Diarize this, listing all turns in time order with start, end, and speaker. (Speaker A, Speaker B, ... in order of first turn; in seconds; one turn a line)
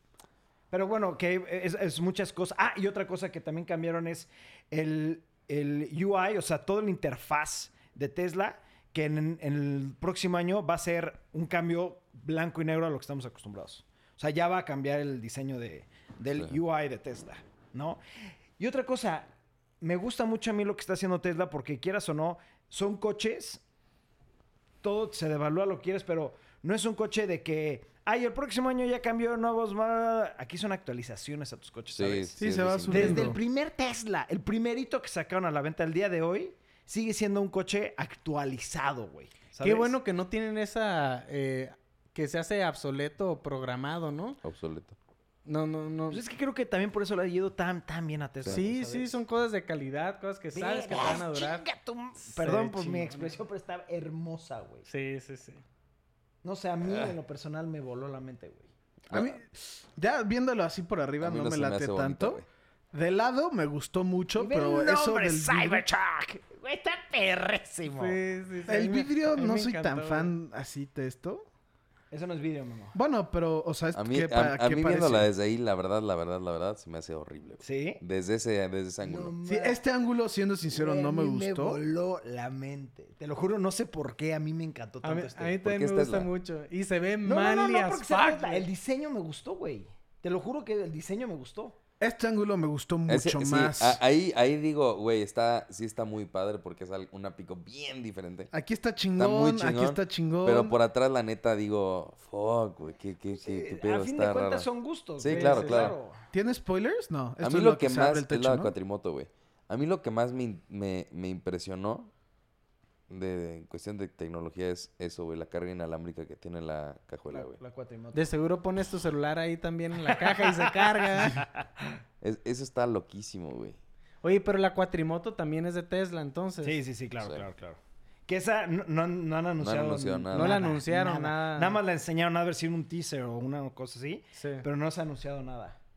Speaker A: 0.7-18.0
Speaker A: 18.6-23.6
Speaker A: 24.8-39.9
Speaker B: 31.9-33.4
Speaker C: 32.4-33.4
Speaker D: 39.6-44.4
Speaker B: 44.4-45.0
Speaker D: 45.5-46.2
Speaker A: 46.1-49.2
Speaker D: 48.5-51.6
Speaker A: 50.5-54.9
Speaker D: 52.3-53.4
Speaker D: 54.9-55.6
Speaker A: 56.4-58.7
Speaker B: 56.8-57.1
Speaker B: 59.1-59.4
Speaker C: 59.1-65.8
Speaker B: 61.2-62.5
Speaker A: 64.3-68.2
Speaker D: 68.0-70.3
Speaker C: 68.7-71.5
Speaker A: 72.1-73.0
Speaker C: 72.9-75.3
Speaker B: 73.9-79.3
Speaker A: 77.6-78.0
Speaker A: 79.0-79.8
Speaker C: 79.5-81.8
Speaker A: 80.7-85.6
Speaker D: 85.0-88.7
Speaker B: 85.6-86.3
Speaker A: 87.2-91.8
Speaker C: 92.0-94.0
Speaker B: 93.1-98.5
Speaker C: 98.5-100.8
Speaker B: 99.2-104.7
Speaker A: 103.4-106.2
Speaker B: 105.2-105.9
Speaker D: 105.3-105.9
Speaker C: 106.3-108.7
Speaker B: 107.4-112.1
Speaker B: 113.1-117.6
Speaker A: 117.3-118.3
Speaker D: 118.1-121.4
Speaker A: 120.1-121.8
Speaker B: 122.2-123.8
Speaker D: 124.2-126.8
Speaker A: 126.6-135.8
Speaker B: 129.6-130.6
Speaker D: 130.3-131.8
Speaker D: 134.3-134.6